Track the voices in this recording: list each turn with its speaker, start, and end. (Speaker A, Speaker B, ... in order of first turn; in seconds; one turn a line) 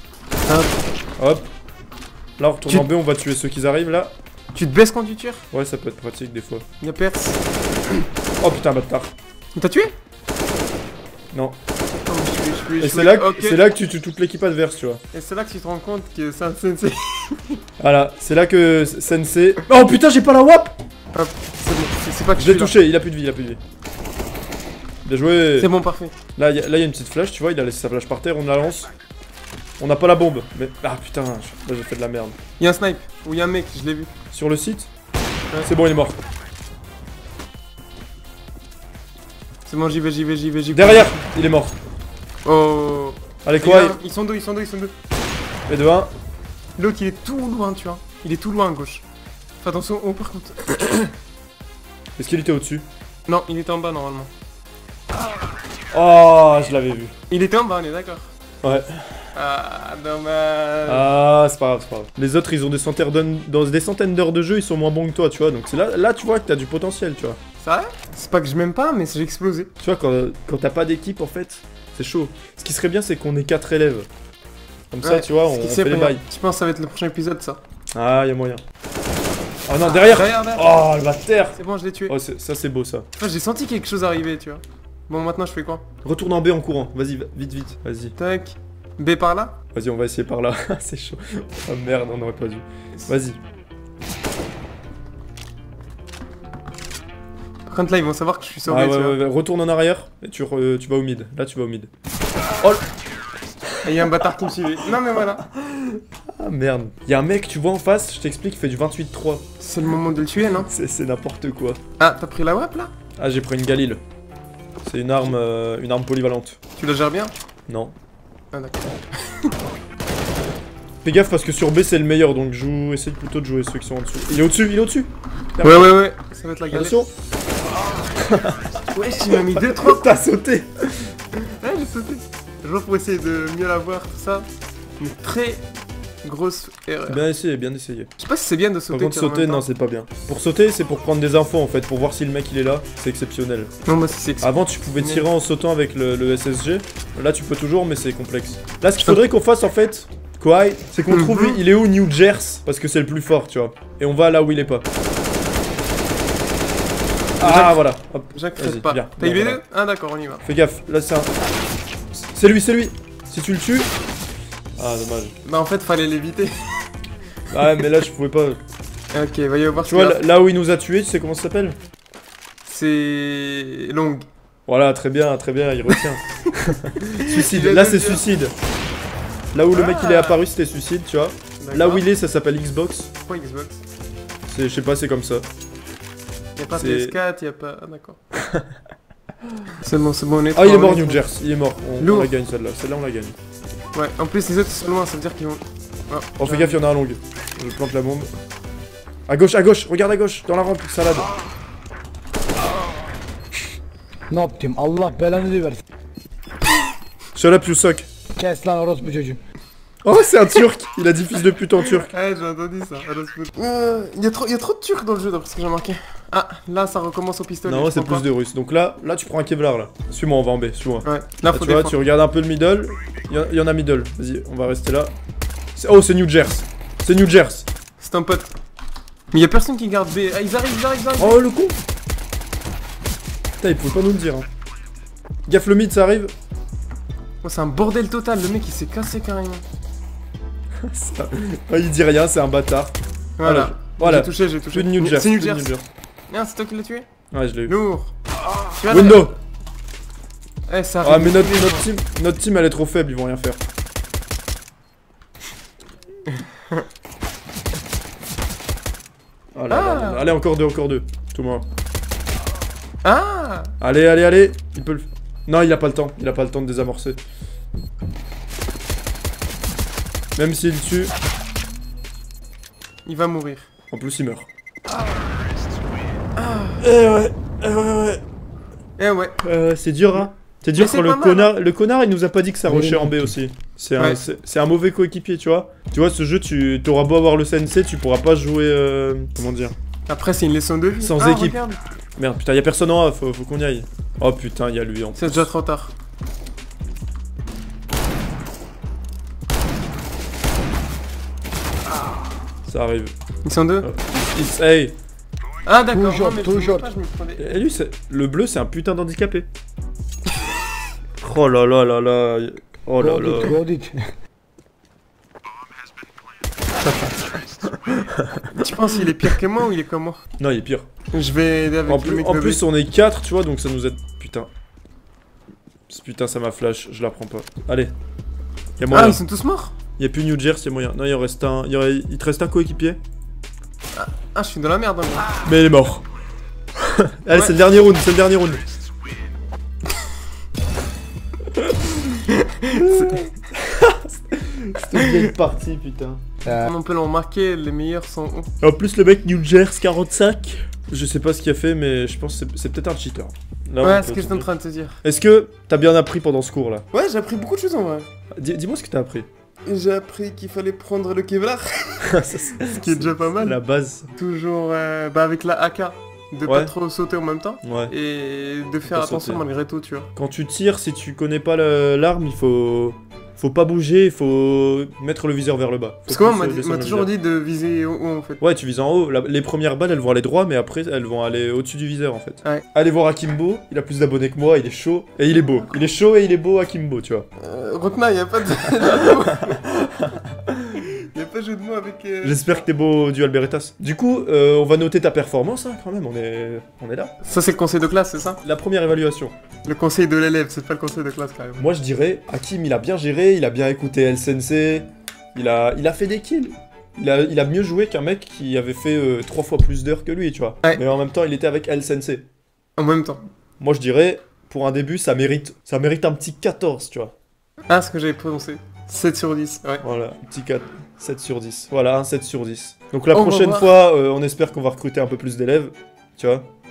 Speaker A: 0.5-0.8
Speaker B: 1.2-1.5
Speaker B: 2.4-4.1
Speaker A: 4.5-5.4
Speaker B: 5.5-6.7
Speaker A: 6.8-8.1
Speaker B: 8.4-9.1
Speaker A: 9.6-9.9
Speaker A: 12.1-13.6
Speaker B: 12.8-15.0
Speaker A: 15.1-17.6
Speaker B: 17.8-20.8
Speaker A: 21.1-22.8
Speaker B: 22.4-23.6
Speaker B: 25.1-25.7
Speaker A: 25.6-26.1
Speaker B: 26.4-28.9
Speaker B: 29.8-32.4
Speaker A: 32.6-34.1
Speaker B: 34.3-34.9
Speaker B: 35.6-36.2
Speaker A: 39.7-41.2
Speaker B: 40.7-41.8
Speaker A: 42.5-44.9
Speaker B: 43.5-44.0
Speaker B: 45.7-46.1
Speaker A: 46.8-49.0
Speaker A: 49.6-51.1
Speaker B: 52.2-52.9
Speaker A: 53.3-54.3
Speaker B: 55.9-57.1
Speaker A: 57.3-58.3
Speaker B: 58.6-59.3
Speaker A: 59.4-61.1
Speaker B: 60.9-67.4
Speaker A: 67.6-69.7
Speaker B: 69.8-74.1
Speaker B: 74.9-76.2
Speaker A: 75.0-77.6
Speaker B: 77.9-78.6
Speaker B: 79.7-83.1
Speaker A: 79.8-80.8
Speaker A: 81.5-82.2
Speaker A: 83.2-85.8
Speaker B: 86.0-88.1
Speaker A: 88.2-89.6
Speaker B: 89.7-93.4
Speaker A: 97.7-99.2
Speaker B: 98.7-101.9
Speaker B: 102.6-102.8
Speaker B: 103.7-104.2
Speaker A: 103.8-105.5
Speaker B: 104.9-109.5
Speaker A: 109.6-110.7
Speaker B: 110.6-111.8
Speaker A: 112.0-112.9
Speaker B: 113.2-114.0
Speaker B: 114.8-116.6
Speaker A: 116.8-117.3
Speaker B: 117.7-118.0
Speaker A: 118.5-119.5
Speaker B: 121.0-125.9
Speaker A: 125.6-127.1
Speaker B: 126.7-127.1
Speaker B: 128.1-128.6
Speaker A: 128.9-130.1
Speaker B: 129.4-131.2
Speaker A: 131.4-134.5
Speaker A: 135.0-135.7
Speaker A: 136.2-137.2
Speaker B: 137.1-138.1
Speaker A: 138.2-139.7
Speaker B: 138.9-143.7
Speaker A: 143.8-145.3
Speaker B: 144.4-154.8
Speaker A: 149.0-149.3
Speaker A: 151.1-151.6
Speaker B: 157.4-159.6
Speaker A: 157.4-157.8
Speaker A: 158.3-160.4
Speaker B: 160.4-161.3
Speaker B: 162.3-163.9
Speaker B: 164.8-165.4
Speaker A: 165.4-166.7
Speaker B: 167.5-168.6
Speaker A: 169.1-170.3
Speaker B: 169.8-171.8
Speaker A: 172.7-174.3
Speaker B: 174.7-178.5
Speaker A: 177.2-178.2
Speaker B: 179.5-183.1
Speaker A: 179.7-180.4
Speaker A: 181.6-182.1
Speaker A: 183.2-183.8
Speaker B: 184.5-185.4
Speaker A: 186.6-188.2
Speaker B: 186.7-187.2
Speaker A: 189.8-191.2
Speaker B: 190.6-193.4
Speaker A: 192.0-192.3
Speaker A: 193.9-196.8
Speaker B: 196.4-198.3
Speaker B: 199.3-201.3
Speaker C: 204.3-205.8
Speaker B: 207.3-208.1
Speaker C: 208.4-209.4
Speaker B: 210.0-212.1
Speaker A: 212.0-218.3
Speaker B: 217.7-225.1
Speaker A: 221.0-222.0
Speaker B: 225.8-227.7
Speaker A: 228.0-228.5
Speaker A: 229.3-231.4
Speaker B: 231.2-231.8
Speaker B: 233.6-234.5
Speaker B: 235.5-236.3
Speaker A: 237.4-239.6
Speaker B: 240.8-245.9
Speaker A: 243.4-245.7
Speaker A: 246.3-247.1
Speaker B: 247.3-247.7
Speaker A: 247.7-248.1
Speaker A: 248.7-249.3
Speaker B: 248.9-249.3
Speaker A: 250.7-251.9
Speaker B: 251.0-253.6
Speaker A: 256.4-256.8
Speaker B: 259.6-261.6
Speaker A: 259.7-260.3
Speaker A: 263.0-263.7
Speaker B: 263.8-267.2
Speaker B: 270.4-271.1
Speaker A: 273.1-273.7
Speaker B: 273.9-274.5
Speaker A: 276.4-276.8
Speaker B: 276.8-278.2
Speaker A: 279.0-279.4
Speaker B: 279.4-289.8
Speaker A: 280.8-281.5
Speaker C: 282.6-283.3
Speaker A: 284.0-284.2
Speaker A: 290.1-291.8
Speaker B: 291.0-291.6
Speaker B: 292.2-295.5
Speaker A: 295.1-295.9
Speaker B: 302.7-303.1
Speaker A: 303.4-303.9
Speaker B: 303.8-305.0
Speaker A: 305.6-307.5
Speaker C: 305.9-306.9
Speaker B: 307.4-309.5
Speaker B: 311.2-313.6
Speaker C: 313.0-314.1
Speaker B: 316.9-318.5
Speaker A: 318.5-320.2
Speaker B: 320.4-320.9
Speaker A: 321.1-322.6
Speaker B: 321.9-324.5
Speaker B: 325.9-327.9
Speaker B: 328.8-329.2
Speaker A: 328.9-329.8
Speaker B: 330.0-333.0
Speaker A: 333.9-335.4
Speaker B: 335.4-336.1
Speaker B: 336.8-338.6
Speaker A: 342.3-343.3
Speaker B: 342.7-346.2
Speaker A: 344.9-345.3
Speaker A: 346.5-348.5
Speaker B: 348.6-354.5
Speaker A: 353.8-355.0
Speaker B: 355.0-356.9
Speaker A: 356.9-358.1
Speaker B: 358.3-359.3
Speaker A: 359.7-363.6
Speaker B: 362.0-364.1
Speaker A: 364.1-370.1
Speaker B: 366.5-366.7
Speaker B: 367.6-367.9
Speaker B: 368.9-369.4
Speaker B: 370.2-377.1
Speaker A: 376.1-378.4
Speaker B: 378.4-387.3
Speaker A: 387.4-389.6
Speaker B: 389.4-390.8
Speaker A: 390.8-392.7
Speaker B: 392.2-397.1
Speaker A: 397.2-398.4
Speaker B: 398.4-399.3
Speaker A: 399.6-401.7
Speaker B: 401.6-412.3
Speaker A: 412.8-413.2
Speaker B: 413.6-417.1
Speaker A: 417.7-419.8
Speaker B: 419.8-426.5
Speaker A: 423.1-423.7